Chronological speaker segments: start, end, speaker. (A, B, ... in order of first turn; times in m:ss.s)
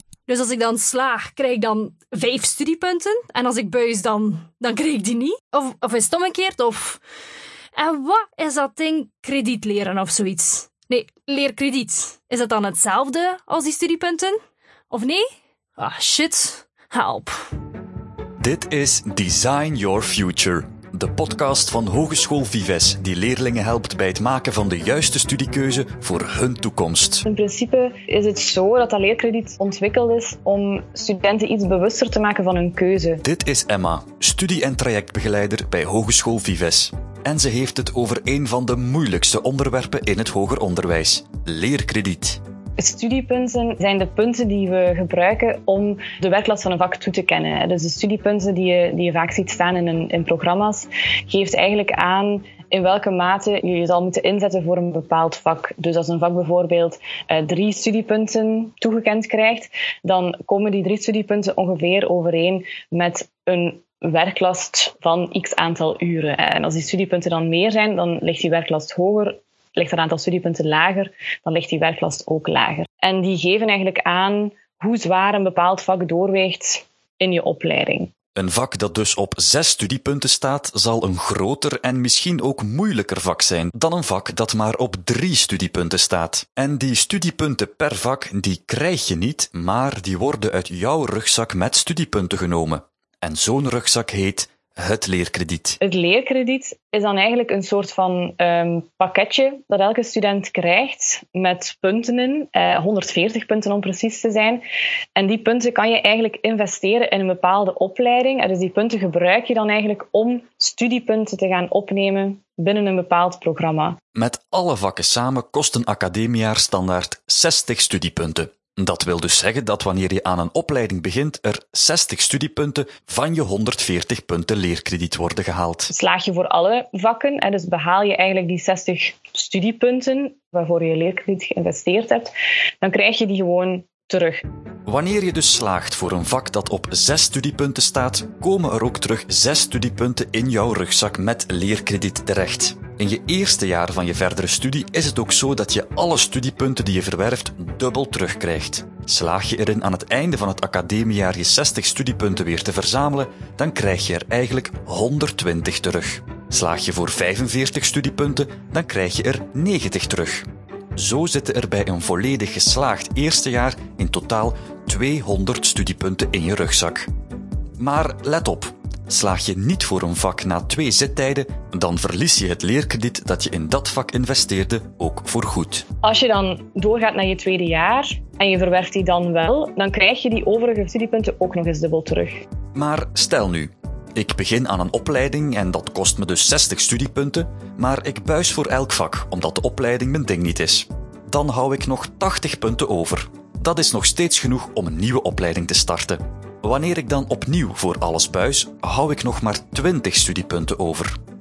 0:00.3-0:07.0 A
0:07.7-0:14.4 A
0:14.9-0:17.4 A
0:18.4-0:27.2 B
0:27.2-0:33.2 C
0:33.2-0:42.4 B
0:42.8-1:18.1 C
1:18.3-1:35.8 B
1:35.8-1:44.6 C
1:45.1-1:54.0 C
1:54.1-2:05.9 B
2:05.9-2:14.4 C
2:14.8-2:47.1 B
2:47.8-2:55.8 B
2:56.0-3:02.4 C
3:02.7-3:21.1 B